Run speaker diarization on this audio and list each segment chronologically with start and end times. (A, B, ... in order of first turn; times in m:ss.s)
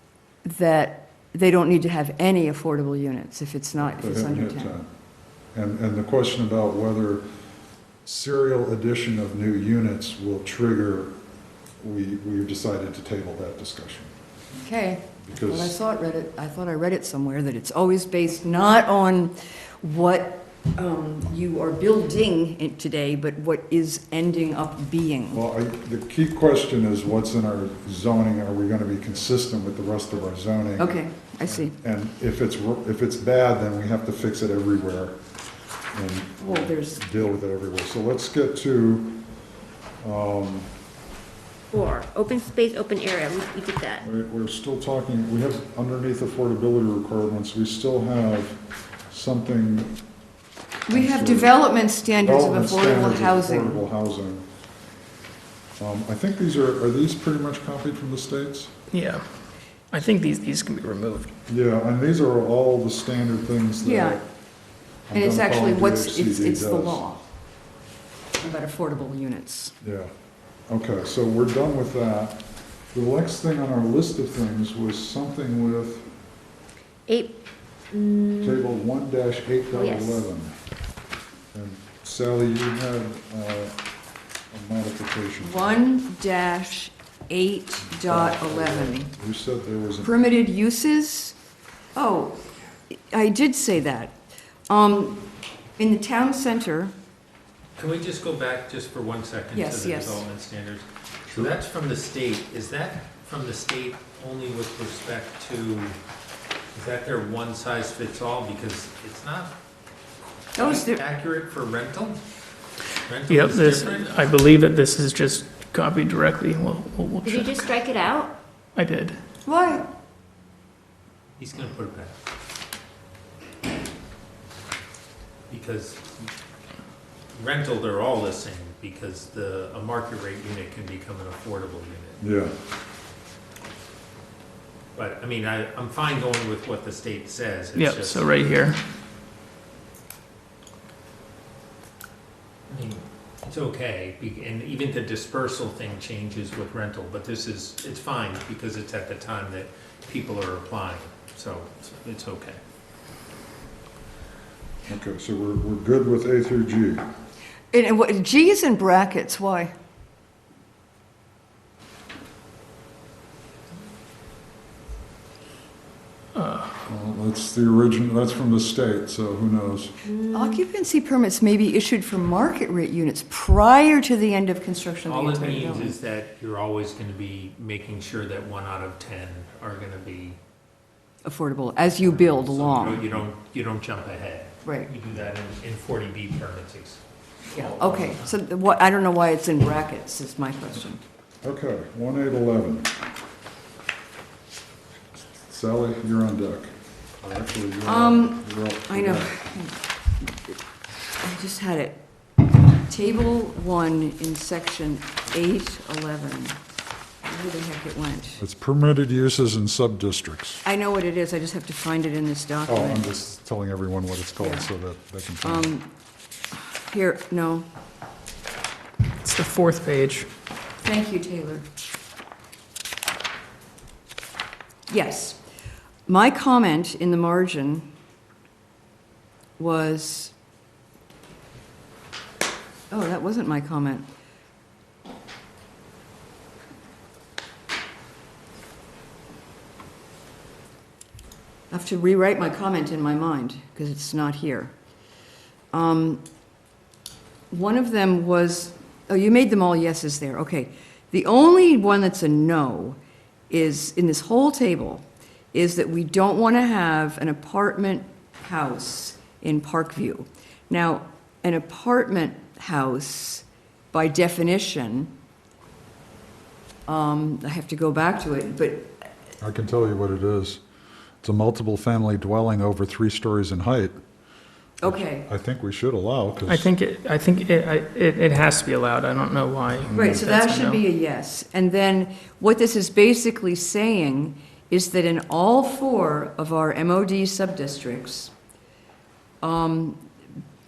0:00.4-0:04.8 A
0:03.8-0:04.9 B
0:05.5-0:07.2 B
0:08.0-0:11.1 B
0:11.8-0:14.1 B
0:14.6-0:25.4 A
0:15.2-0:15.8 B
0:25.3-0:35.2 B
0:30.8-0:31.8 A
0:35.9-0:39.2 B
0:36.4-0:37.3 A
0:40.0-0:40.7 B
0:41.7-0:44.0 C
0:44.0-0:48.6 B
0:49.1-0:50.0 B
0:50.9-0:53.8 A
0:50.9-0:51.6 B
0:52.1-0:54.4 B
0:55.8-0:58.7 B
0:58.9-0:59.3 D
0:59.9-1:01.3 D
1:01.5-1:04.2 B
1:03.8-1:04.2 A
1:05.1-1:07.0 B
1:05.1-1:07.2 A
1:08.4-1:09.8 A
1:09.8-1:10.1 B
1:10.7-1:16.1 B
1:17.1-1:17.4 C
1:17.9-1:18.6 C
1:18.4-1:20.5 B
1:19.7-1:20.2 C
1:21.5-1:23.8 B
1:24.5-1:25.8 B
1:25.4-1:29.1 A
1:27.9-1:30.2 B
1:30.0-1:31.4 A
1:32.0-1:34.2 A
1:34.7-1:36.9 A
1:37.8-1:46.0 E
1:39.5-1:40.2 A
1:46.7-1:49.5 E
1:50.6-1:51.0 A
1:50.6-1:52.2 E
1:53.0-1:54.2 E
1:53.3-1:57.7 D
1:57.2-1:58.4 C
1:58.8-1:59.2 D
1:59.4-1:59.9 A
2:01.4-2:02.2 E
2:05.5-2:06.3 E
2:07.3-2:12.2 E
2:12.2-2:12.5 B
2:15.0-2:18.3 E
2:17.8-2:18.8 D
2:22.7-2:32.6 E
2:34.9-2:37.0 B
2:37.7-2:39.7 A
2:46.4-2:46.7 D
2:46.9-2:49.9 B
2:50.1-2:50.6 C
2:50.3-2:56.0 A
2:55.0-3:00.4 E
3:01.2-3:03.0 A
3:02.3-3:08.3 E
3:02.8-3:03.2 B
3:04.6-3:04.9 A
3:07.5-3:11.0 A
3:11.4-3:12.9 B
3:15.5-3:19.4 B
3:17.8-3:20.5 A
3:21.2-3:22.0 A
3:22.8-3:26.6 A
3:27.2-3:28.4 A
3:28.4-3:30.6 B
3:30.6-3:33.1 A
3:32.7-3:35.8 B
3:34.4-3:34.7 A
3:35.4-3:35.9 A
3:36.5-3:37.7 A
3:39.2-3:40.3 D
3:40.8-3:41.7 A
3:44.9-3:45.4 A
3:46.1-3:47.9 A
3:49.6-3:50.3 A
3:52.9-3:54.1 A
4:01.7-4:04.7 A
4:05.7-4:06.2 A
4:07.5-4:13.0 A
4:13.5-4:25.1 A
4:26.9-4:28.9 A
4:29.4-4:30.6 B
4:31.2-4:34.0 B
4:34.8-4:35.3 A
4:34.8-4:36.7 B
4:36.5-4:40.8 D
4:39.9-4:48.3 A
4:49.4-4:50.1 A